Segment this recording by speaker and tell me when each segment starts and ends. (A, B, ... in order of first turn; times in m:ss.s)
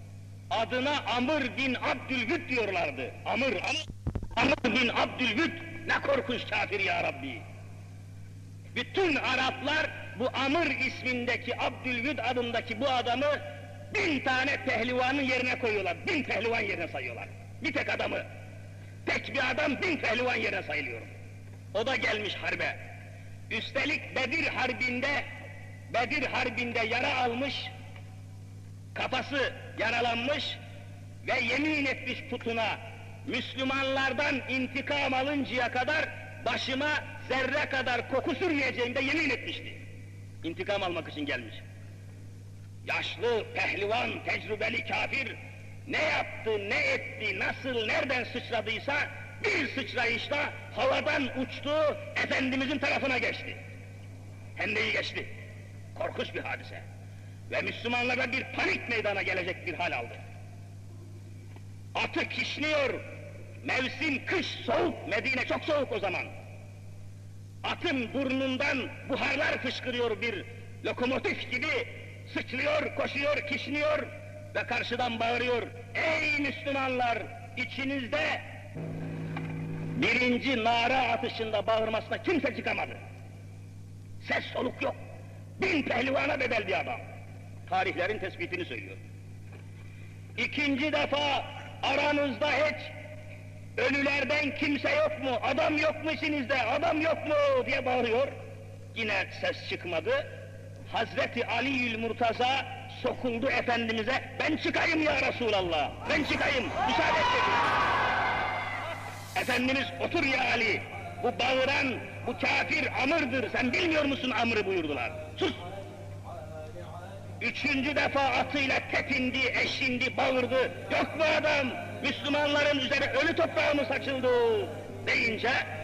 0:00.5-0:07.4 A
0:08.7-0:18.2 A
0:19.0-0:21.1 A
0:21.7-0:22.8 A
0:23.5-0:25.3 A
0:25.9-0:27.7 A
0:28.9-0:30.6 A
0:31.2-0:39.8 A
0:40.4-0:41.6 A
0:42.8-0:53.6 A
0:54.6-0:55.3 A
0:55.9-0:56.8 A
0:57.5-1:00.2 A
1:02.0-1:03.0 A
1:03.6-1:06.3 A
1:07.6-1:18.4 A
1:20.0-1:23.0 A
1:24.2-1:25.0 A
1:25.6-1:27.0 A
1:27.7-1:29.0 A
1:30.4-1:32.9 A
1:33.8-1:38.3 A
1:38.9-1:40.2 A
1:40.9-1:47.7 A
1:49.4-1:55.6 A
1:57.4-2:05.6 A